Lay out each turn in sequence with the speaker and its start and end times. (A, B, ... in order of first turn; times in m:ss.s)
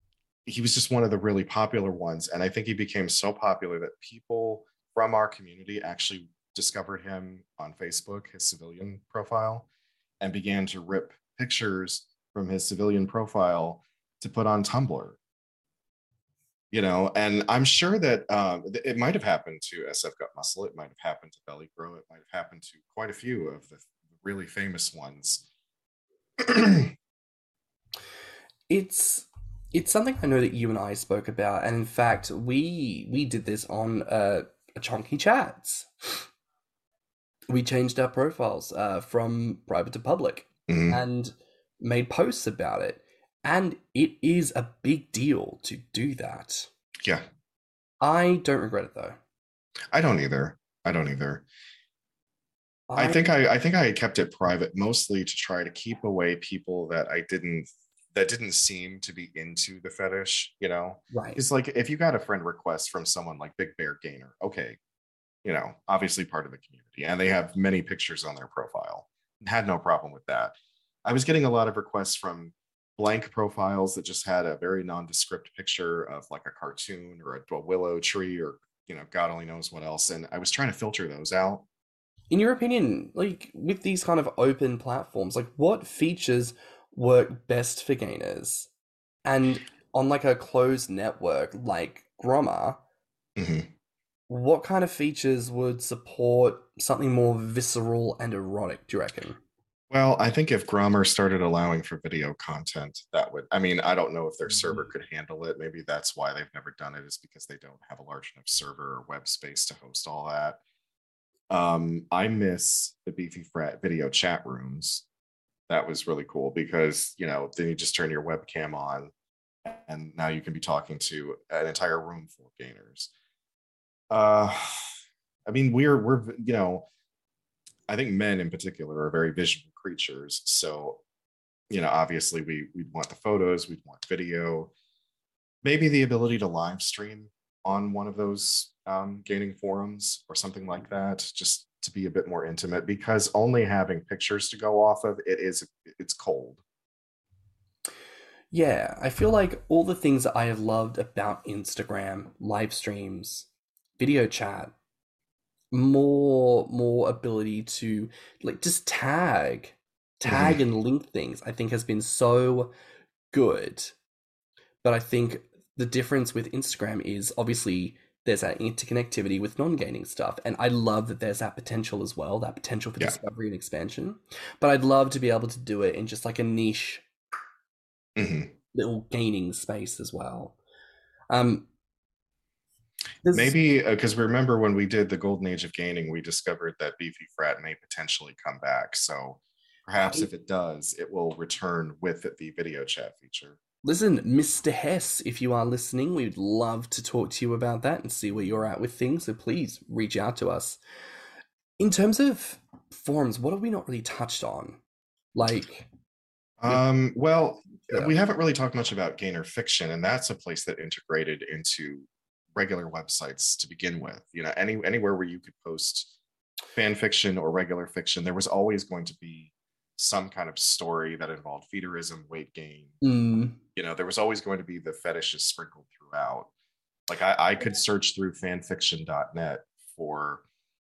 0:00.4-0:09.7 A
0:10.2-0:15.2 A
0:16.7-0:25.4 A
0:26.4-0:26.9 A
0:28.7-0:36.2 B
0:37.5-0:46.7 B
0:40.7-0:41.0 A
0:48.0-0:49.2 B
0:49.9-0:51.4 A
0:52.9-0:53.2 B
0:53.0-1:04.8 A
1:01.1-1:01.4 B
1:05.4-1:10.5 A
1:11.0-1:21.6 A
1:22.3-1:28.7 B
1:29.2-1:32.8 B
1:33.4-1:33.7 A
1:34.3-1:39.4 B
1:39.9-1:50.6 A
1:51.5-1:55.0 A
1:55.7-1:59.1 A
1:59.6-2:03.1 A
2:04.1-2:04.9 A
2:05.4-2:06.8 A
2:07.9-2:11.0 A
2:11.7-2:14.7 A
2:15.6-2:26.6 A
2:28.5-2:34.7 B
2:35.7-2:42.7 B
2:40.2-2:40.6 A
2:43.3-2:44.0 B
2:44.8-2:57.0 B
2:58.2-2:58.5 A
2:58.7-3:00.6 B
3:01.3-3:01.7 B
3:03.2-3:03.5 B
3:03.3-3:13.6 A
3:10.0-3:10.3 B
3:13.8-3:20.8 B
3:21.8-3:24.8 B
3:25.3-3:25.9 B
3:26.6-3:36.1 A
3:27.9-3:28.1 B
3:36.7-3:42.9 A
3:43.0-3:43.6 B
3:43.8-3:46.5 A
3:47.1-3:50.4 A